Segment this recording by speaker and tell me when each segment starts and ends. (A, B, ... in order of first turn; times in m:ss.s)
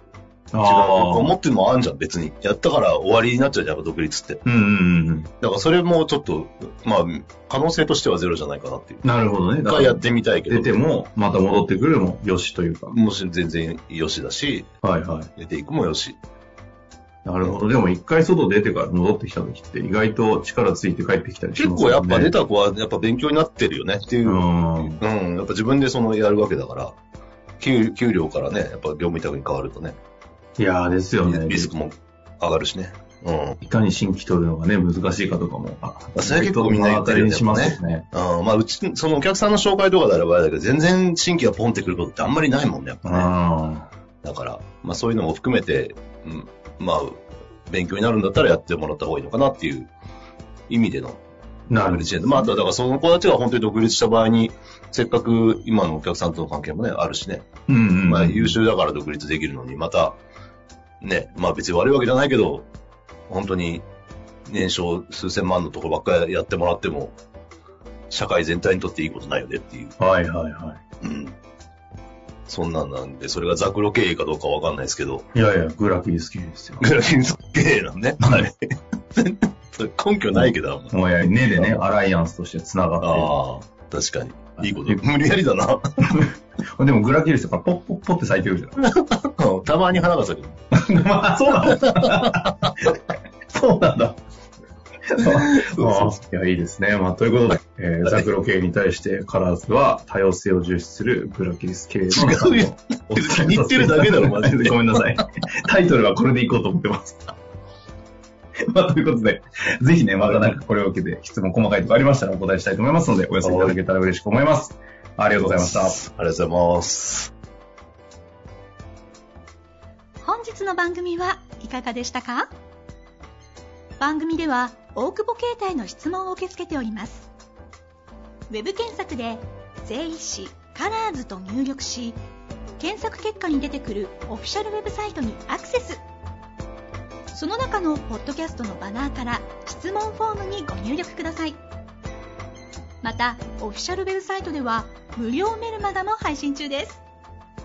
0:00.5-0:01.3 A
0:00.6-0:04.4 B
0:04.4-0:05.3 A
0:05.4-0:09.0 B
0:09.0-0:13.0 A
0:09.6-0:10.8 B
0:12.9-0:14.7 B
0:14.8-0:15.3 A
0:15.4-0:16.2 B
0:17.2-0:22.3 A
0:21.6-0:27.0 B
0:24.2-0:25.0 A
0:27.6-0:30.0 B
0:30.6-0:31.7 A
0:31.2-0:33.6 B
0:33.6-0:38.0 A
0:36.2-0:43.3 B
0:43.0-0:43.9 A
0:44.2-0:49.9 B
0:50.7-0:51.2 B
0:51.7-0:52.5 A
0:51.7-0:57.5 B
0:57.7-0:58.6 A
0:58.0-1:00.2 B
1:01.0-1:02.7 B
1:03.3-1:03.8 B
1:04.5-1:07.2 B
1:08.1-1:09.9 B
1:10.0-1:10.8 A
1:11.0-1:11.3 B
1:12.5-1:15.3 B
1:15.3-1:16.8 A
1:16.8-1:21.8 B
1:20.3-1:23.3 A
1:23.0-1:25.8 B
1:24.6-1:25.0 A
1:26.0-1:28.8 A
1:28.8-1:30.6 B
1:30.7-1:33.0 A
1:31.6-1:32.5 B
1:33.5-1:34.2 A
1:35.1-1:47.4 A
1:35.2-1:36.2 B
1:42.1-1:45.0 B
1:48.7-1:56.0 A
1:50.2-1:50.5 B
1:53.4-1:53.8 B
1:55.4-1:57.3 B
2:00.2-2:02.5 C
2:04.0-2:07.3 C
2:08.5-2:12.2 C
2:12.8-2:16.0 C
2:17.3-2:21.6 C
2:23.0-2:27.0 C